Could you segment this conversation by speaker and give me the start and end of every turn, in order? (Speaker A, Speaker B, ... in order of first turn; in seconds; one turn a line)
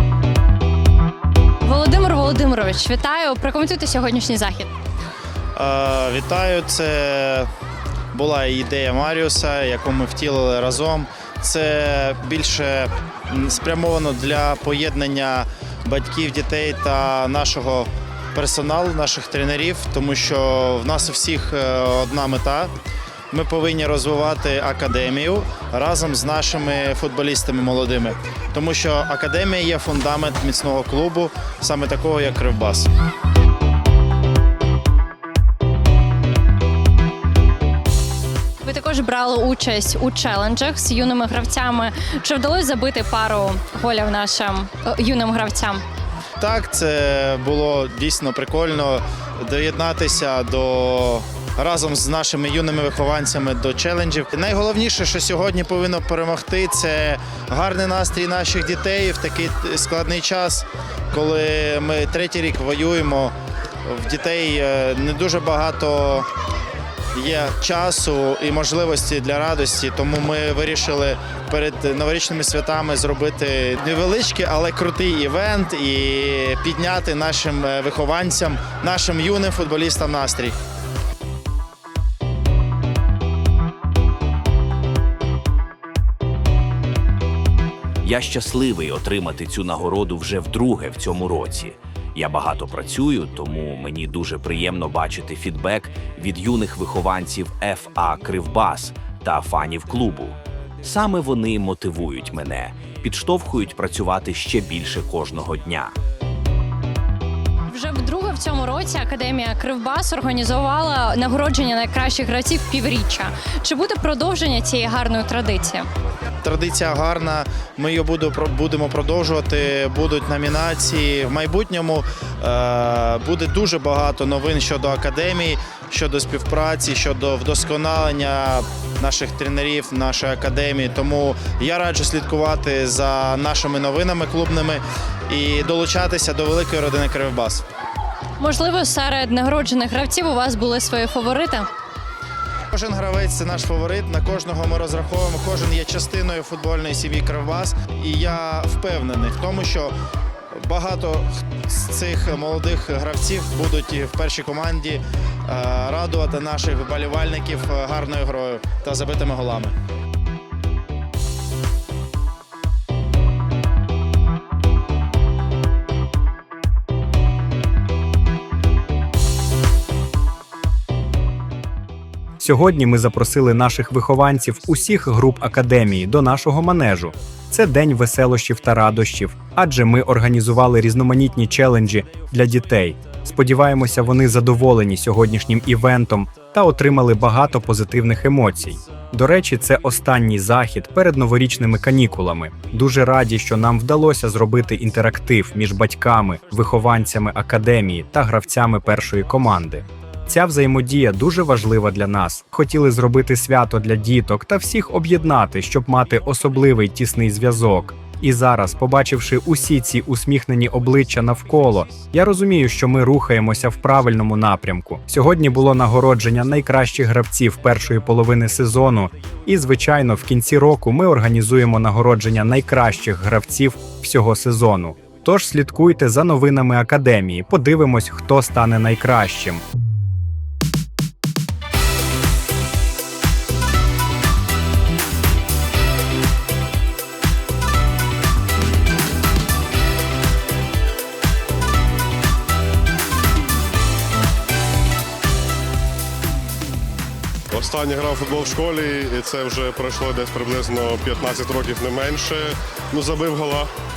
Speaker A: 1.6-4.7
Speaker B: 5.5-7.5
Speaker B: 8.1-22.7
Speaker B: 23.3-32.9
Speaker A: 38.6-45.8
Speaker B: 46.4-63.3
Speaker B: 63.9-66.3
Speaker B: 67.1-80.5
Speaker C: 88.0-106.0
Speaker A: 107.7-115.8
Speaker B: 116.4-137.6
Speaker A: 138.4-141.7
Speaker B: 142.7-149.9
Speaker B: 150.5-159.7
Speaker D: 172.4-229.6
Speaker E: 247.5-253.7